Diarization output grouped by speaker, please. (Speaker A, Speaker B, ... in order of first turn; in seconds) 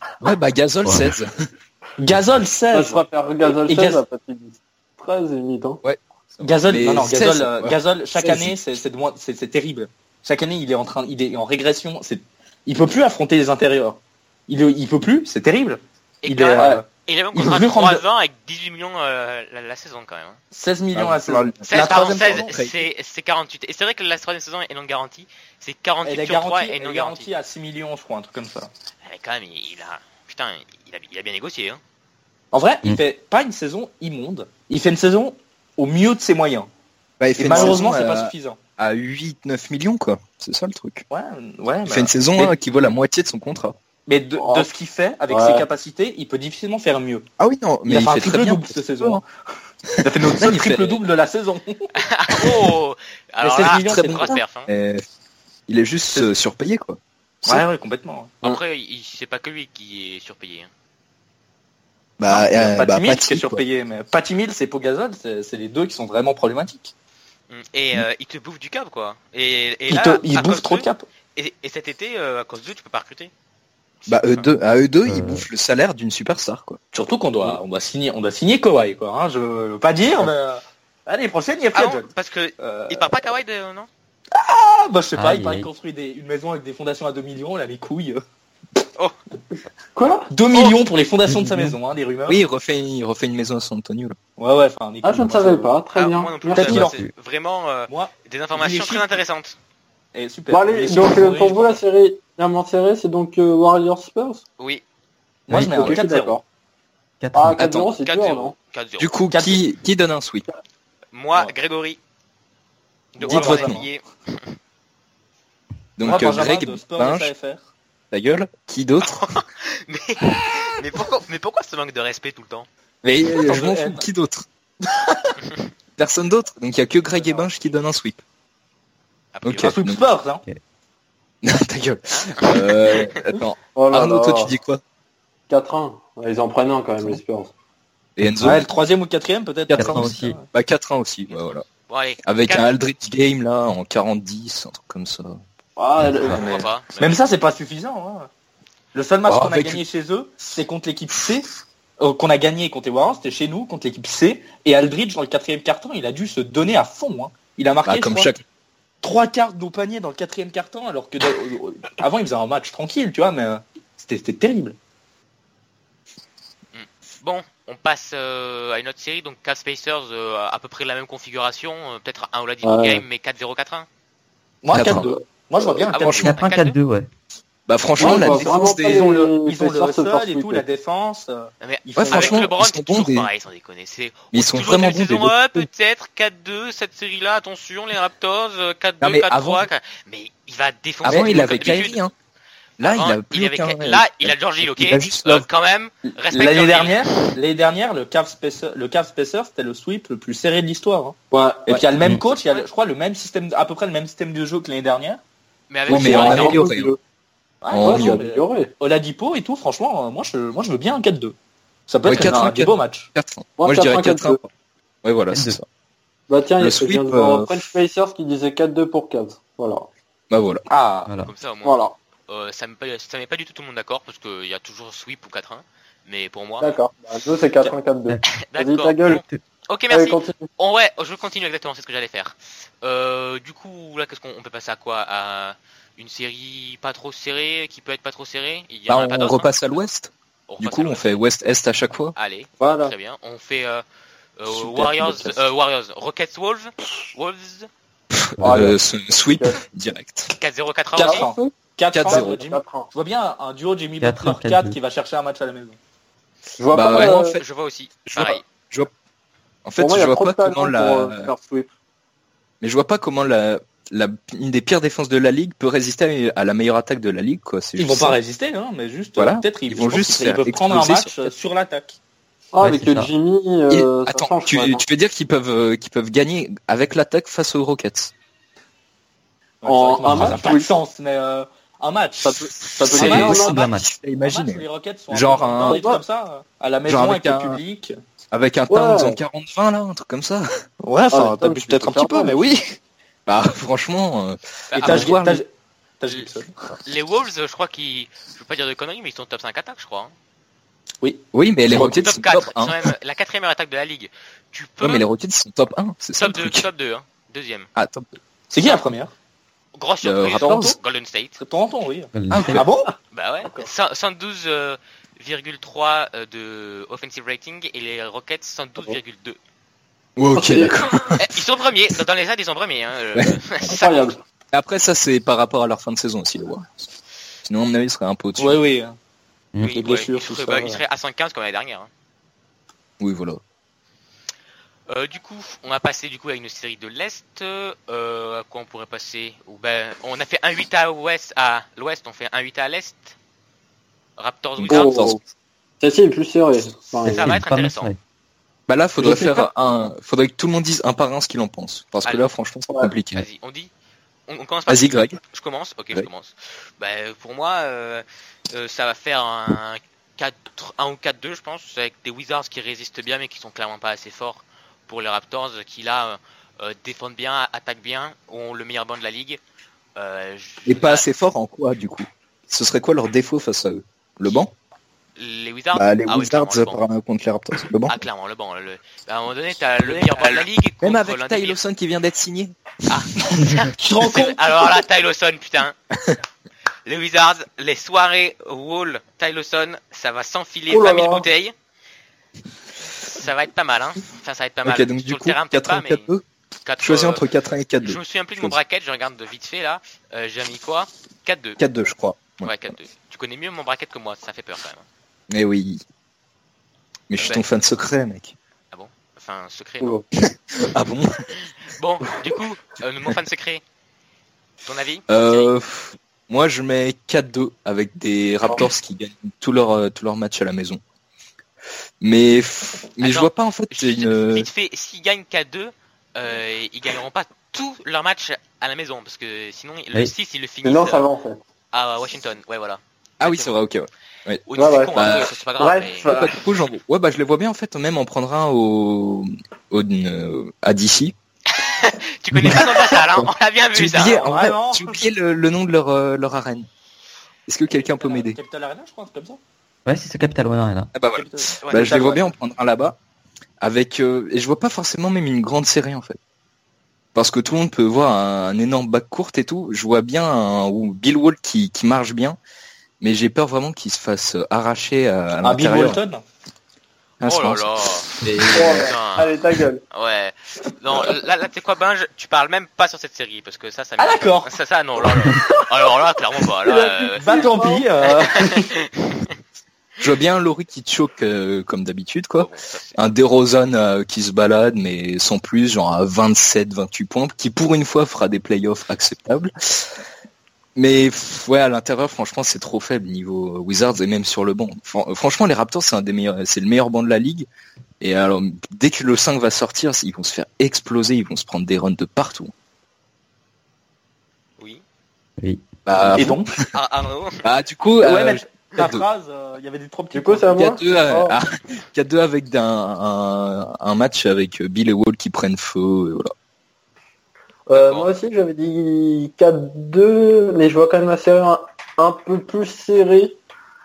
Speaker A: 0.2-1.3, 5.8-8.5, 20.9-22.7, 37.2-41.0, 41.9-43.8, 47.4-49.2, 49.9-51.0, 53.6-55.0, 55.7-57.6, 62.2-63.6, 74.1-76.8, 92.3-94.2, 107.5-107.9, 109.0-110.5, 113.2-113.8, 116.0-117.3, 118.1-119.3, 123.0-124.5, 126.0-128.2, 129.4-130.0, 131.4-134.8, 138.2-138.7, 139.7-141.7, 142.2-145.4, 149.3-149.8, 157.8-158.4, 174.7-175.2, 176.0-176.3, 177.7-179.1, 182.0-183.3, 184.3-185.7, 189.0-189.7, 191.0-192.1, 192.8-195.5, 205.9-206.9, 207.7-208.2, 212.0-214.5, 215.0-215.7, 216.6-217.7, 220.3-220.7, 238.9-242.2, 244.5-245.4, 248.1-250.3, 251.9-252.4, 256.7-257.4, 258.1-258.9, 259.6-261.3, 262.6-268.2, 269.2-271.3, 273.7-278.1, 280.1-280.4, 282.8-285.8, 286.9-287.6, 288.3-290.5, 293.3-295.4, 301.3-302.9, 304.8-306.7, 307.8-308.2, 310.0-310.7, 312.3-312.7, 320.2-321.3, 323.1-323.8, 324.5-326.9, 327.4-328.6, 333.0-333.4, 344.6-345.2, 348.7-353.2, 354.7-355.2, 370.7-374.5, 375.7-378.0, 380.2-382.5, 383.2-383.5, 394.6-396.2, 396.8-398.6, 401.6-402.5, 405.3-405.8, 407.1-408.4, 410.1-411.3, 415.1-420.8, 422.0-424.5, 433.2-435.3, 436.1-441.1, 442.4-446.7, 447.5-448.4, 450.9-453.0, 453.6-456.2, 457.1-462.4, 463.0-466.0, 467.2-468.9, 480.0-490.0, 490.8-497.5, 498.0-502.5, 505.9-506.7, 507.4-509.1, 510.5-516.3
Speaker B: 0.9-1.1, 75.1-75.5, 85.2-85.7, 91.3-91.8, 96.8-97.1, 105.5-106.0, 107.2-107.9, 139.7-140.4, 146.0-146.4, 176.1-177.1, 215.3-215.6, 221.1-221.3, 229.1-229.4, 248.4-248.7, 254.0-254.8, 272.6-273.1, 280.1-280.4, 282.9-283.9, 312.1-312.6, 329.5-329.8, 347.1-348.0, 449.9-450.9, 505.4-506.4
Speaker C: 2.0-4.0, 6.4-18.0, 20.5-22.5, 26.1-28.7, 32.5-36.7, 37.4-38.6, 41.1-42.5, 44.1-47.3, 47.9-49.2, 50.0-51.9, 53.4-54.3, 57.5-58.6, 62.3-66.9, 69.9-71.1, 76.9-82.1, 82.6-83.1, 84.3-88.2, 90.3-92.4, 94.4-95.7, 96.5-97.0, 97.9-99.2, 100.2-101.8, 105.5-106.4, 109.3-109.6, 113.2-113.9, 116.0-117.6, 123.3-124.0, 124.8-125.4, 129.6-130.4, 138.4-140.5, 146.2-148.3, 148.9-158.3, 159.0-164.8, 174.6-176.2, 178.0-182.5, 191.1-191.4, 196.1-201.2, 201.7-205.2, 206.1-206.5, 207.6-211.3, 211.9-213.1, 220.7-221.1, 250.9-255.8, 267.8-272.0, 279.6-283.6, 284.2-287.9, 290.8-292.8, 294.7-295.5, 296.0-296.5, 301.0-302.0, 308.5-309.1, 310.3-310.8, 311.4-312.9, 328.4-328.9, 329.7-330.8, 379.8-380.4, 383.8-384.6, 444.2-445.0, 447.7-449.4, 451.1-452.3, 465.4-466.2, 474.0-474.5, 477.2-478.7, 506.1-506.5, 508.0-510.5
Speaker D: 2.7-5.8, 37.5-37.8, 44.4-44.7, 45.3-45.7, 90.0-90.3, 95.0-96.8, 100.5-104.4, 105.5-106.4, 107.3-108.5, 133.8-134.6, 135.5-137.5, 145.8-146.5, 172.6-173.0, 174.8-175.2, 178.0-180.7, 201.3-201.7, 205.9-207.0, 207.8-208.7, 213.6-214.4, 216.3-219.9, 221.6-221.9, 226.6-229.2, 229.9-230.5, 242.6-242.9, 248.4-248.8, 249.3-249.6, 251.0-251.5, 252.1-252.9, 256.6-257.4, 259.8-261.7, 272.5-274.8, 279.6-280.7, 282.2-283.6, 285.6-286.0, 288.7-289.2, 291.1-292.4, 320.4-320.9, 323.7-324.2, 344.7-345.2, 345.8-347.4, 349.0-349.5, 390.7-391.2, 430.6-431.4, 434.6-435.0, 435.6-436.4, 468.5-469.8, 476.6-477.9, 510.1-511.4, 517.7-523.4
Speaker E: 16.2-20.4, 21.6-27.3, 29.0-31.8, 52.0-54.7, 58.4-60.7, 67.5-73.3, 74.0-74.5, 81.8-83.9, 96.0-99.6, 108.0-109.1, 111.1-112.0, 113.2-114.5, 119.0-122.7, 129.3-129.7, 132.1-133.1, 141.3-142.7, 146.2-147.2, 166.7-173.9, 175.9-176.8, 181.6-192.0, 192.8-197.3, 202.3-202.7, 205.7-206.6, 221.2-226.7, 228.5-239.5, 240.5-241.2, 242.2-243.8, 244.4-247.7, 250.3-251.3, 256.8-258.5, 294.7-295.1, 296.9-300.1, 301.8-305.1, 306.2-307.7, 308.6-308.9, 309.8-311.4, 313.1-319.4, 321.2-324.1, 329.6-331.9, 334.9-343.2, 344.2-344.9, 347.1-347.9, 353.1-353.7, 354.3-369.4, 370.0-371.1, 375.2-376.8, 377.9-381.6, 382.9-385.8, 386.9-391.5, 393.1-396.1, 396.6-397.3, 397.8-401.6, 402.4-404.9, 408.7-410.0, 411.3-413.6, 414.6-415.5, 423.0-431.1, 431.7-433.5, 434.5-436.1, 441.5-444.3, 467.2-468.1, 468.8-469.3, 469.9-477.4, 478.5-479.3, 482.4-483.0, 506.7-507.4, 517.7-518.1